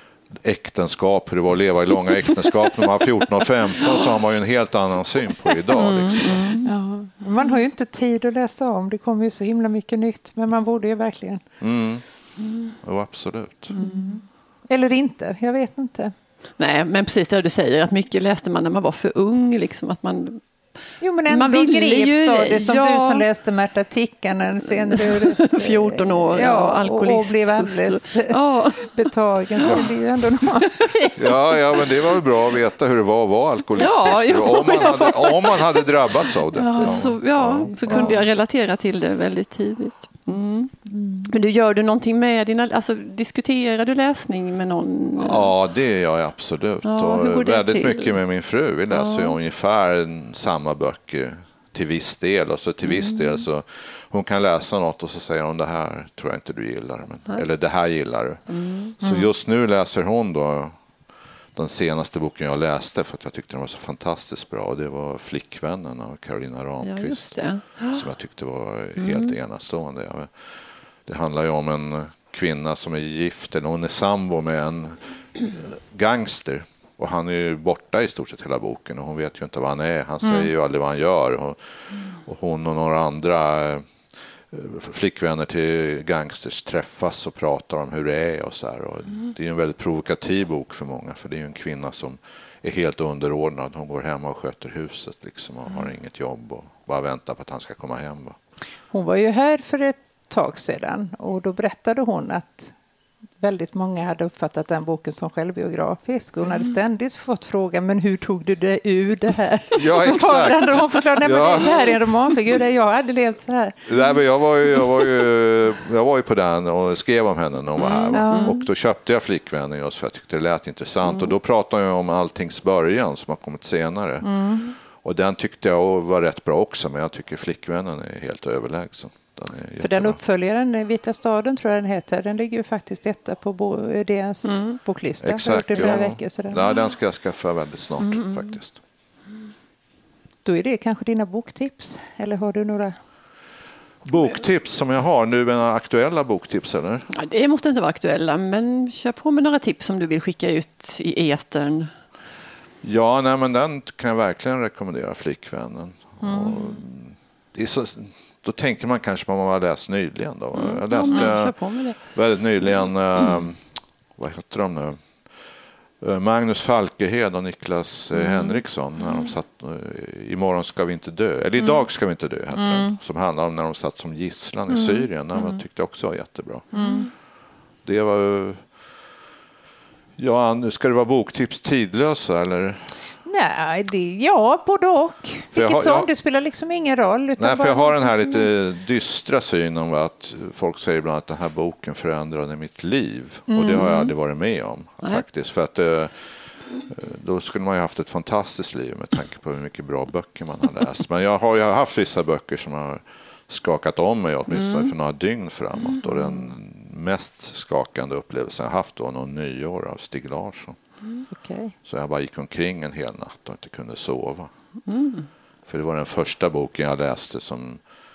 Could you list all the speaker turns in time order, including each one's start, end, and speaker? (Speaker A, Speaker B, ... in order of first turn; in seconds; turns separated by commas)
Speaker A: 0.4-6.5, Speaker B: 5.7-6.7, Speaker C: 6.6-11.4, Speaker A: 11.6-12.0, Speaker A: 12.8-13.8, Speaker B: 13.7-14.2, Speaker C: 13.8-16.1, Speaker B: 16.6-20.4, Speaker C: 21.0-31.3, Speaker B: 21.3-23.2, Speaker B: 24.9-28.9, Speaker B: 29.6-29.9, Speaker A: 31.2-38.2, Speaker B: 33.8-35.8, Speaker B: 36.5-40.7, Speaker C: 36.7-37.0, Speaker C: 37.9-38.2, Speaker C: 40.9-41.3, Speaker B: 41.3-45.5, Speaker A: 45.2-58.5, Speaker B: 46.8-48.2, Speaker B: 48.9-49.4, Speaker B: 52.8-53.4, Speaker B: 58.5-58.9, Speaker A: 59.0-60.7, Speaker C: 59.0-59.3, Speaker A: 61.5-70.5, Speaker B: 66.8-68.1, Speaker B: 69.0-69.3, Speaker A: 71.0-81.6, Speaker C: 80.2-80.5, Speaker A: 82.1-83.8, Speaker A: 84.5-98.4, Speaker C: 98.9-102.7, Speaker C: 103.4-113.8, Speaker A: 109.8-112.1, Speaker A: 113.9-124.3, Speaker B: 117.8-118.6, Speaker C: 118.1-118.7, Speaker B: 121.0-121.3, Speaker C: 124.2-124.7, Speaker A: 125.0-130.2, Speaker C: 129.8-136.7, Speaker B: 134.4-134.8, Speaker A: 135.2-138.8, Speaker B: 138.0-138.6, Speaker C: 140.4-142.9, Speaker A: 144.1-147.1, Speaker B: 147.1-151.9, Speaker A: 152.8-163.6, Speaker C: 156.2-156.6, Speaker B: 160.5-162.0, Speaker A: 164.2-165.0, Speaker A: 166.0-176.7, Speaker B: 168.1-168.6, Speaker C: 172.6-172.9, Speaker C: 176.7-177.1, Speaker B: 176.7-177.1, Speaker A: 177.8-178.7, Speaker A: 180.2-182.9, Speaker C: 183.2-188.5, Speaker A: 185.5-186.1, Speaker A: 187.4-196.1, Speaker C: 193.5-194.1, Speaker A: 196.8-210.8, Speaker B: 204.5-204.9, Speaker C: 211.3-211.7, Speaker A: 211.8-214.5, Speaker B: 214.9-215.3, Speaker A: 215.7-217.8